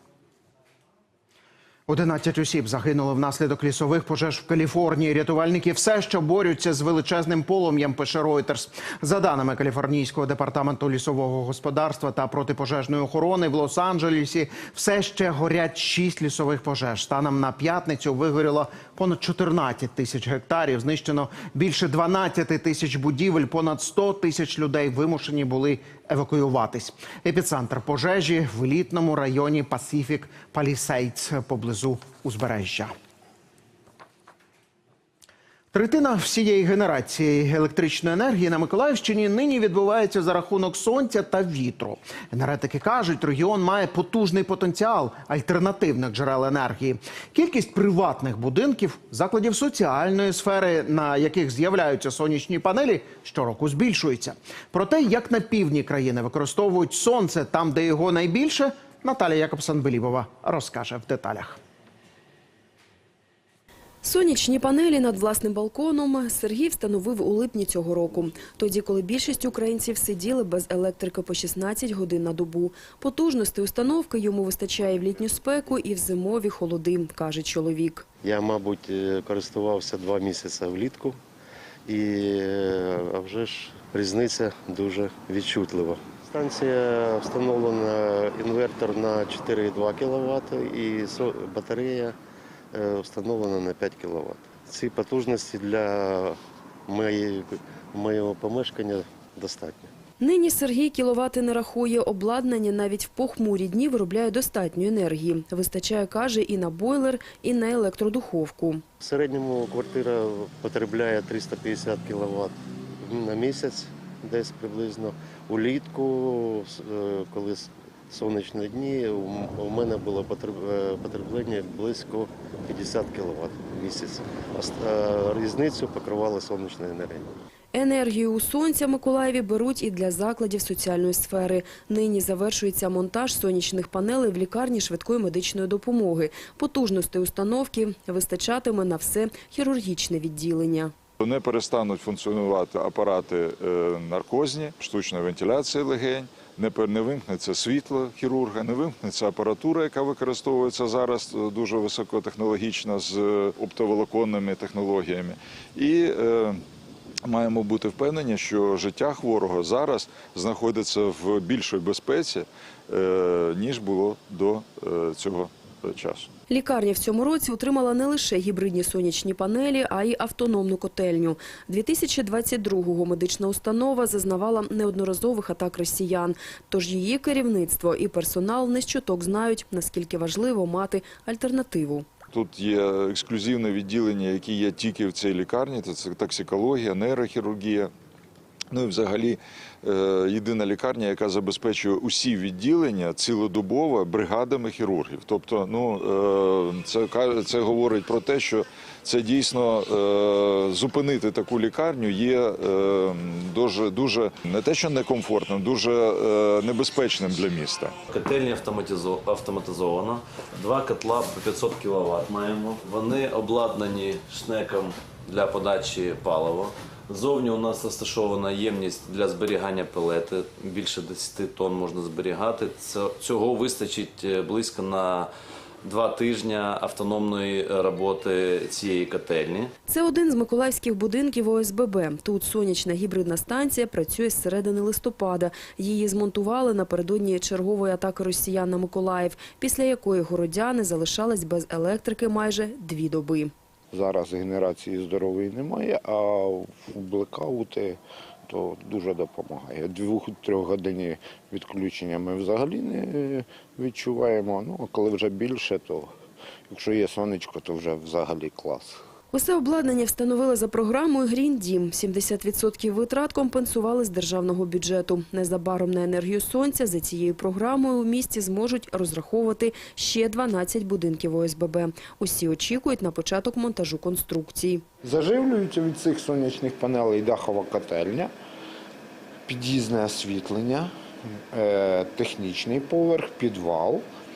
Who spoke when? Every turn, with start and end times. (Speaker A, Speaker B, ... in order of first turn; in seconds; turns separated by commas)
Speaker A: 1.9-32.9, Speaker A: 35.7-61.6, Speaker B: 64.0-78.0, Speaker C: 78.2-81.2, Speaker C: 81.8-92.2, Speaker C: 92.7-99.9, Speaker B: 100.2-108.8, Speaker C: 109.0-127.3, Speaker B: 127.7-140.9, Speaker D: 141.2-156.6, Speaker D: 157.2-166.3, Speaker B: 166.5-182.1, Speaker D: 182.3-187.9, Speaker D: 188.7-207.9, Speaker E: 208.1-225.3, Speaker E: 225.8-229.7, Speaker B: 229.9-243.5, Speaker F: 243.9-256.1, Speaker F: 256.7-259.0, Speaker B: 259.3-274.8, Speaker F: 275.0-278.3, Speaker F: 279.5-284.0